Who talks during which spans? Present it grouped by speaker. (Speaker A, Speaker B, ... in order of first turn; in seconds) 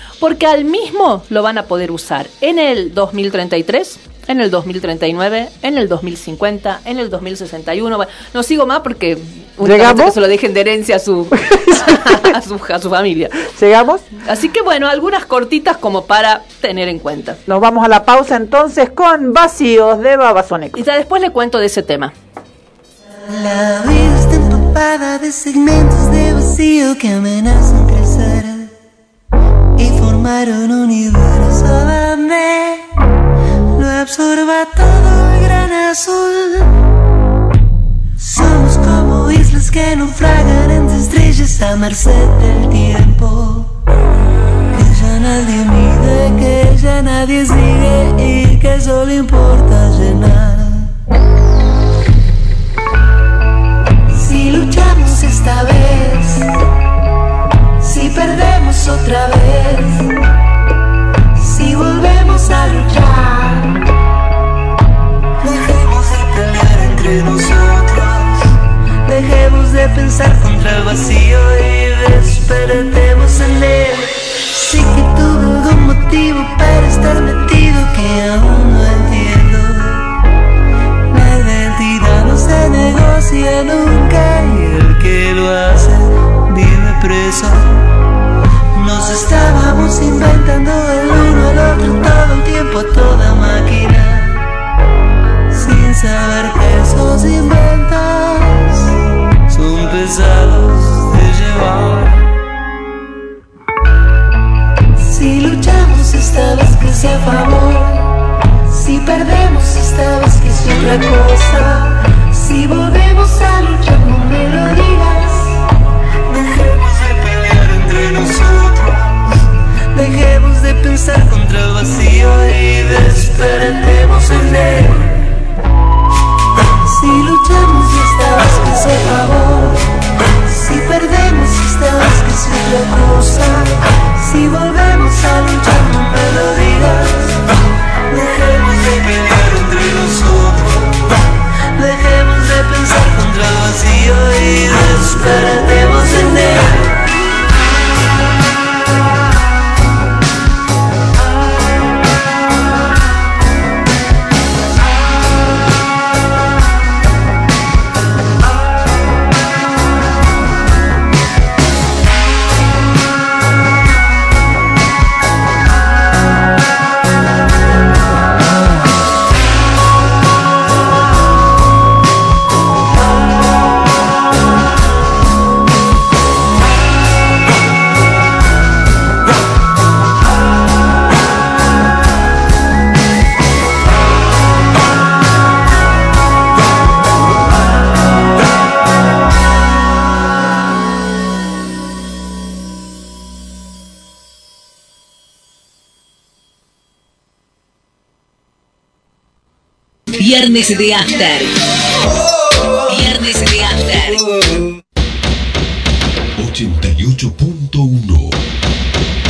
Speaker A: 0.2-13.4, 14.2-17.4, 20.7-22.1
Speaker B: 9.6-10.2, 11.4-12.3, 13.5-14.1, 17.5-20.8
Speaker C: 23.2-28.7, 29.8-32.9, 33.7-36.8, 38.2-43.7, 44.7-50.9, 54.1-56.5, 57.8-60.2, 61.4-63.8, 65.4-80.1, 81.1-87.8, 88.7-94.5, 95.5-98.9, 99.5-102.3, 105.0-108.1, 108.7-115.6, 116.3-125.3, 126.8-129.9, 130.4-137.5, 138.1-141.1, 141.8-146.9
Speaker D: 200.2-201.5, 202.9-204.2
Speaker E: 206.4-208.3